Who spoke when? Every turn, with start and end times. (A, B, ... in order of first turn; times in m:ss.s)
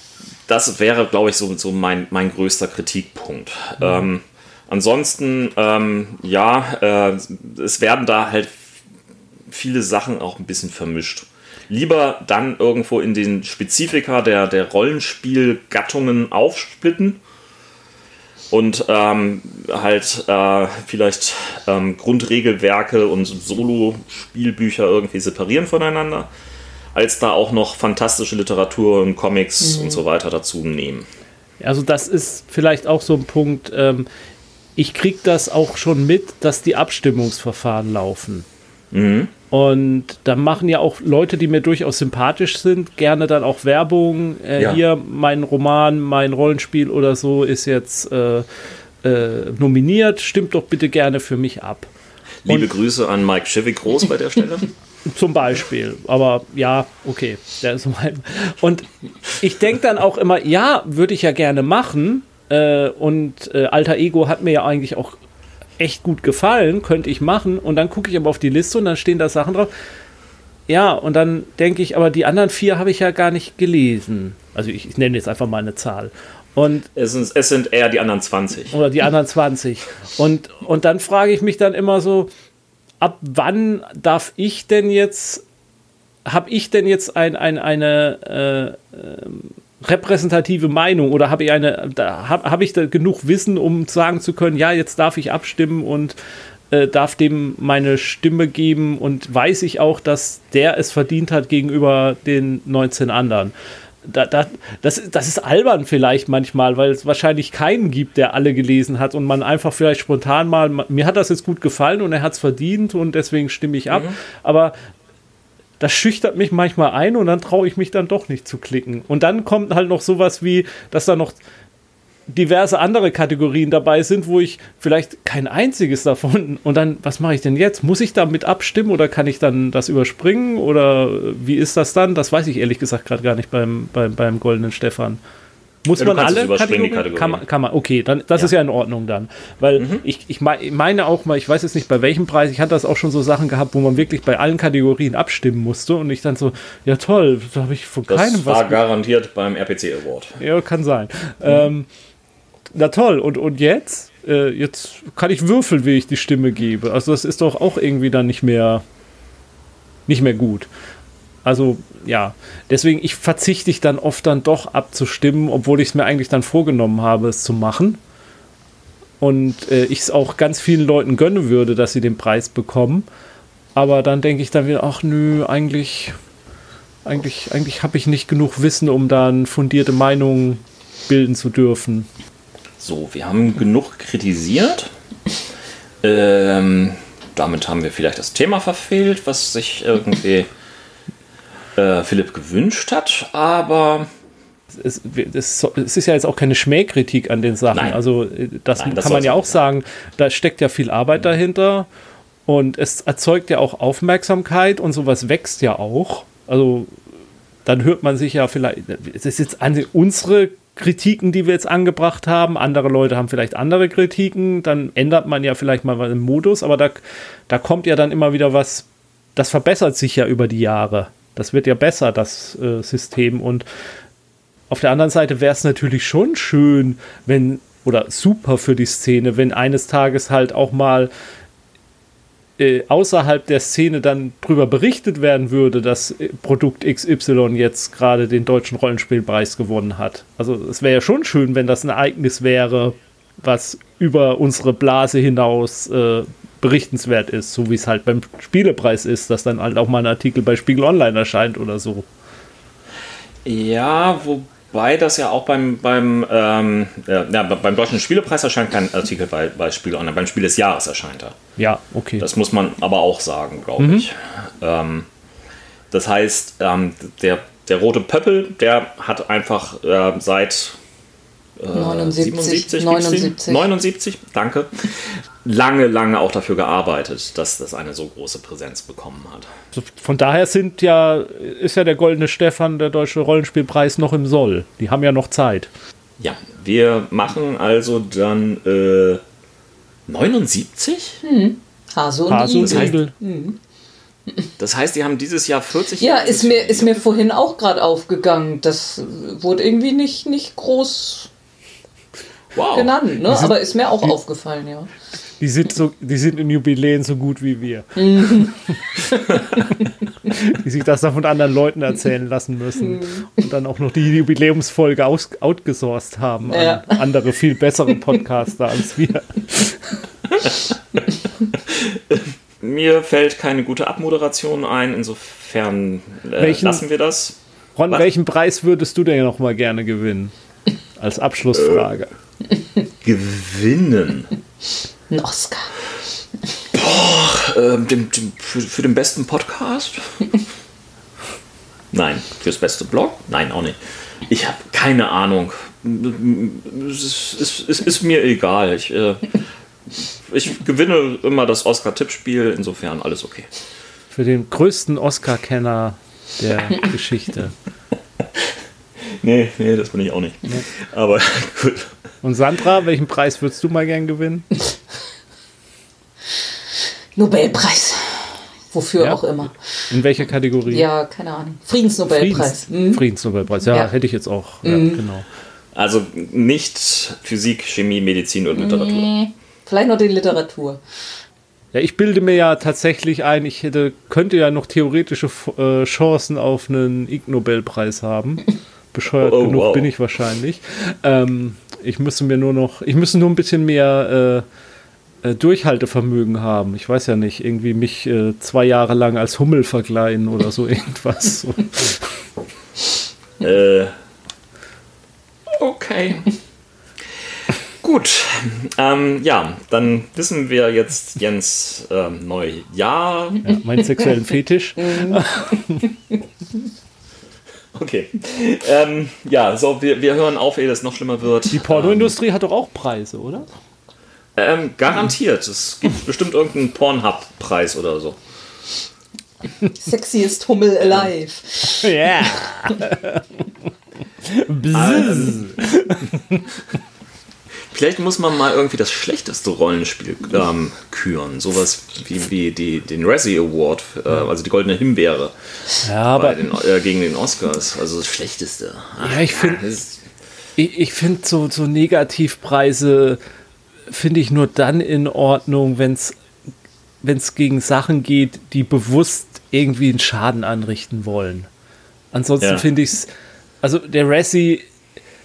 0:00.5-0:08.7 A
0:09.5-0:17.2 A
0:18.5-0:26.3 A
0:26.9-0:31.1 A
0:29.7-0:30.0 B
0:31.6-0:34.1 C
0:34.8-0:38.5 C
0:38.9-0:39.3 A
0:39.5-0:48.5 C
0:44.6-0:44.8 A
0:49.0-0:51.9 C
0:52.4-0:54.7 A
0:55.1-0:58.9 C
0:59.4-1:05.2 C
1:05.8-1:09.7 C
1:10.7-1:16.9 C
1:17.0-1:18.8 A
1:18.7-1:22.3 C
1:23.0-1:25.4 C
1:26.2-1:36.2 C
1:36.7-1:43.5 C
1:44.0-1:54.7 C
1:53.9-1:54.2 A
1:55.8-2:01.4 C
2:02.3-2:15.2 C
2:15.8-2:28.8 C
2:16.0-2:17.4 A
2:19.8-2:20.0 A
2:28.1-2:30.4 A
2:30.4-2:31.9 C
2:32.7-2:38.8 C
2:40.1-2:40.7 C
2:41.4-2:48.0 C
2:49.2-2:53.1 C
2:53.8-2:56.2 C
2:57.0-3:02.1 C
3:02.8-3:04.9 A
3:06.0-3:10.5 A
3:11.8-3:14.1 A
3:14.7-3:21.9 C
3:17.7-3:18.0 A
3:18.8-3:19.6 A
3:22.5-3:26.9 C
3:27.7-3:43.6 C
3:44.7-3:51.1 C
3:52.6-4:12.1 C
4:13.4-4:21.4 A
4:21.6-4:22.3 C
4:22.2-4:25.1 A
4:23.8-4:24.1 C
4:25.9-4:30.8 A
4:31.6-4:39.5 A
4:31.7-4:33.7 B
4:39.7-4:45.7 C
4:46.2-4:49.2 A
4:50.1-4:51.2 A
4:51.2-4:53.6 B
4:52.3-4:53.1 C
4:52.6-4:53.0 A
4:54.6-4:57.2 A
4:56.0-5:01.3 B
5:02.6-5:02.9 A
5:02.7-5:04.9 B
5:03.3-5:04.2 C
5:05.4-5:20.1 C
5:08.0-5:09.9 B
5:12.8-5:13.5 B
5:16.5-5:17.1 B
5:20.3-5:20.6 A
5:21.6-5:27.4 A
5:26.4-5:26.8 C
5:27.8-5:30.3 C
5:31.0-5:32.1 C
5:31.6-5:31.8 A
5:33.0-5:34.3 A
5:35.1-5:35.7 B
5:36.7-5:40.2 A
5:41.9-5:49.4 A
5:50.2-5:53.5 A
5:54.1-5:57.6 C
5:58.2-6:02.0 A
6:02.2-6:04.5 C
6:07.2-6:09.9 B
6:09.9-6:10.9 C
6:10.7-6:13.0 B
6:12.1-6:15.3 C
6:14.6-6:15.0 B
6:15.7-6:19.1 A
6:18.6-6:20.8 B
6:21.7-6:34.4 C
6:29.2-6:29.9 A
6:35.2-6:42.1 C
6:43.4-6:43.9 A
6:45.5-6:46.3 A
6:47.8-6:53.6 A
6:53.4-6:55.8 C
6:54.8-6:56.2 B
6:57.7-7:02.2 A
7:01.5-7:03.5 C
7:04.4-7:08.2 A
7:09.7-7:12.8 B
7:10.8-7:11.1 A
7:11.6-7:13.3 C
7:14.2-7:16.5 C
7:14.7-7:15.7 A
7:17.6-7:25.4 A
7:25.8-7:26.4 C
7:26.1-7:30.0 A
7:29.0-7:29.7 C
7:30.6-7:33.2 C
7:33.9-7:36.2 C
7:37.0-7:41.5 C
7:42.1-7:43.1 C
7:42.4-7:42.6 A
7:43.6-7:44.7 C